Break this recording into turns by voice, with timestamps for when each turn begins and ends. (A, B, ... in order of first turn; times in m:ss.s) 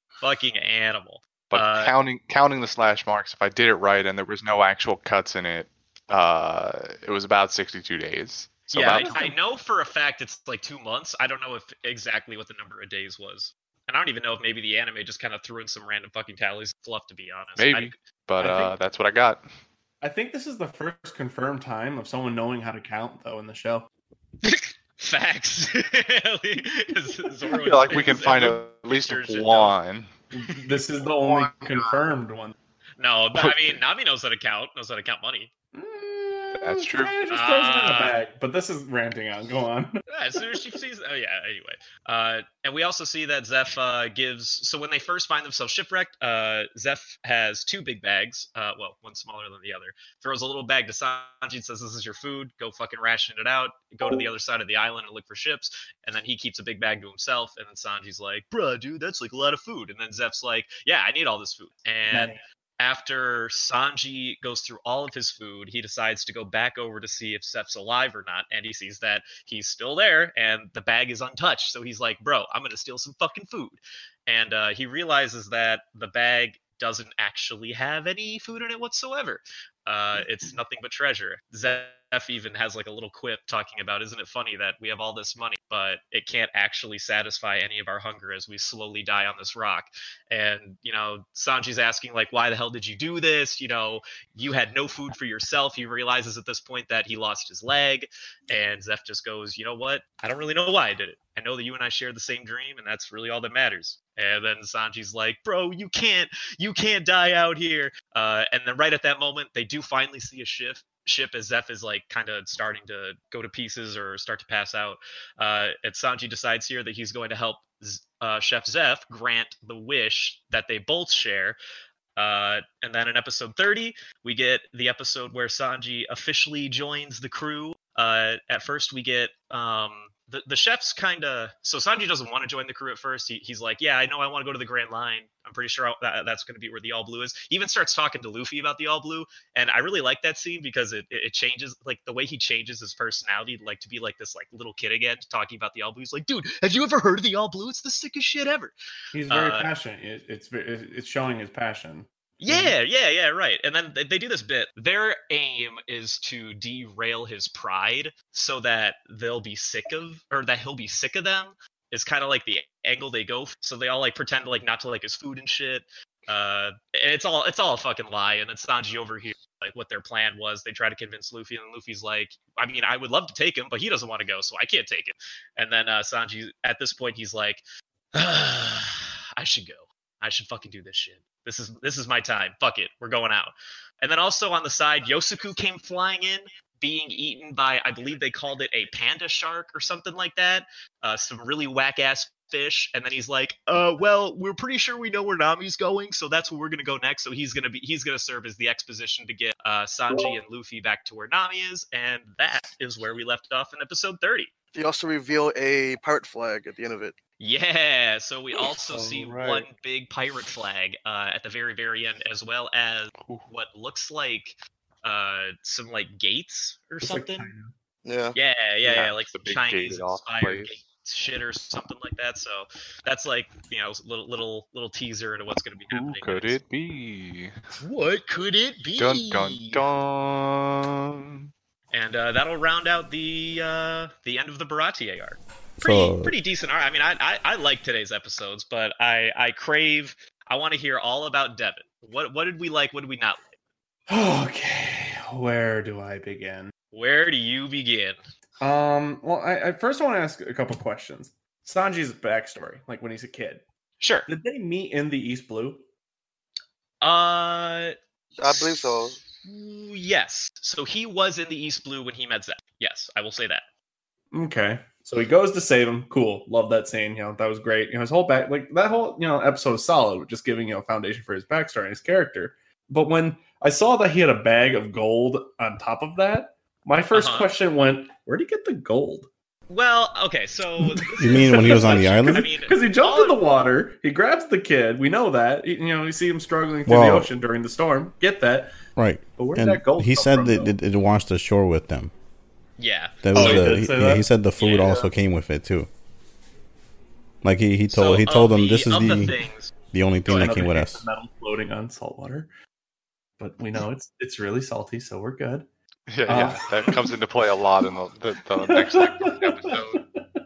0:00.2-0:02.0 A
0:01.5-0:09.3 B
0:08.7-0:18.0 A
0:08.9-0:09.3 C
0:17.6-0:19.4 B
0:18.4-0:18.8 C
0:20.0-0:23.9 C
0:24.4-0:29.8 A
0:27.5-0:30.1 B
0:30.3-0:32.6 C
0:33.0-0:35.5 A
0:33.4-0:33.8 B
0:35.8-0:40.0 C
0:36.6-0:37.2 B
0:37.3-0:38.2 A
0:40.1-2:01.6 A
1:02.1-1:02.4 C
2:02.2-2:28.8 A
2:29.1-2:32.8 C
2:29.3-2:29.7 A
2:32.4-2:57.6 A
2:58.1-3:24.5 A
3:24.8-3:27.2 D
3:27.4-3:37.5 A
3:28.9-3:29.7 C
3:33.2-3:33.5 B
3:37.0-3:37.7 C
3:38.1-3:38.4 D
3:38.3-3:46.6 A
3:38.8-3:40.8 B
3:45.9-3:47.6 B
3:47.8-3:49.8 A
3:49.0-3:51.5 B
3:51.9-4:03.5 A
3:55.8-3:56.4 E
4:04.1-4:06.7 C
4:06.9-4:08.2 A
4:08.6-4:13.6 C
4:14.0-4:14.3 A
4:14.3-4:15.8 C
4:17.0-4:18.0 A
4:18.4-4:19.2 D
4:18.5-4:23.6 A
4:24.3-4:39.3 C
4:37.1-4:37.5 A
4:39.7-4:43.4 A
4:40.8-4:48.8 C
4:41.2-4:42.5 E
4:46.9-4:47.3 E
4:49.0-4:52.1 E
4:49.4-4:50.7 C
4:52.8-4:53.7 A
4:53.2-4:55.9 E
4:53.3-4:54.3 C
4:54.6-4:55.1 A
4:57.4-4:59.4 E
4:57.9-4:59.7 A
4:59.9-5:01.1 E
5:00.3-5:02.5 C
5:03.4-5:05.7 C
5:06.1-5:10.0 B
5:06.3-5:07.2 C
5:08.6-5:10.2 C